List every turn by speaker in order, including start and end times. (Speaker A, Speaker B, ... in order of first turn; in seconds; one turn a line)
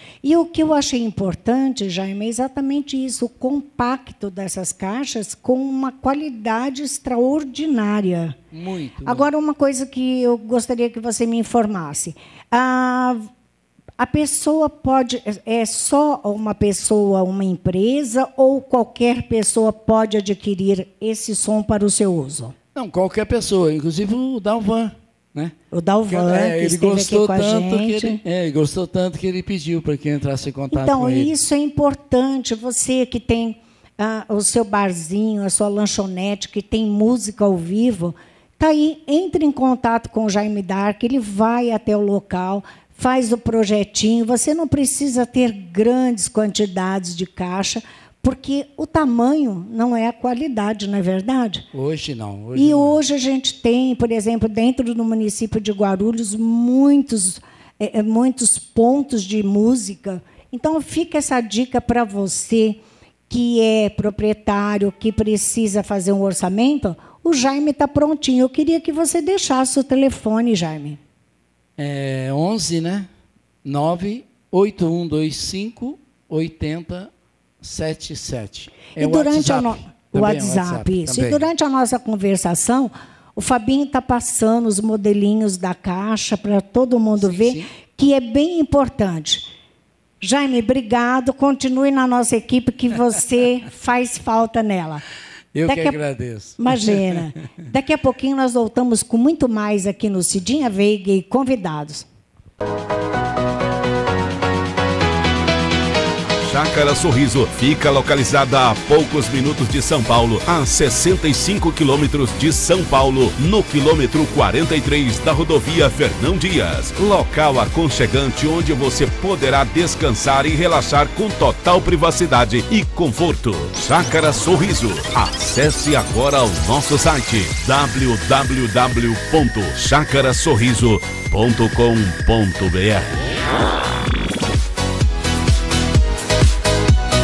Speaker A: 0.2-8.4
Speaker B: 8.5-9.3
Speaker A: 9.0-13.3
Speaker A: 14.0-22.5
Speaker B: 22.8-25.6
Speaker A: 25.7-28.2
Speaker B: 26.1-31.4
Speaker A: 30.7-51.7
Speaker B: 51.7-53.0
Speaker A: 52.5-71.0
Speaker B: 71.8-73.1
Speaker B: 73.6-77.1
Speaker B: 77.6-81.5
Speaker A: 79.0-89.5
Speaker B: 87.2-87.7
Speaker A: 90.2-95.0
Speaker B: 95.5-97.3
Speaker A: 95.7-102.0
Speaker C: 106.4-133.3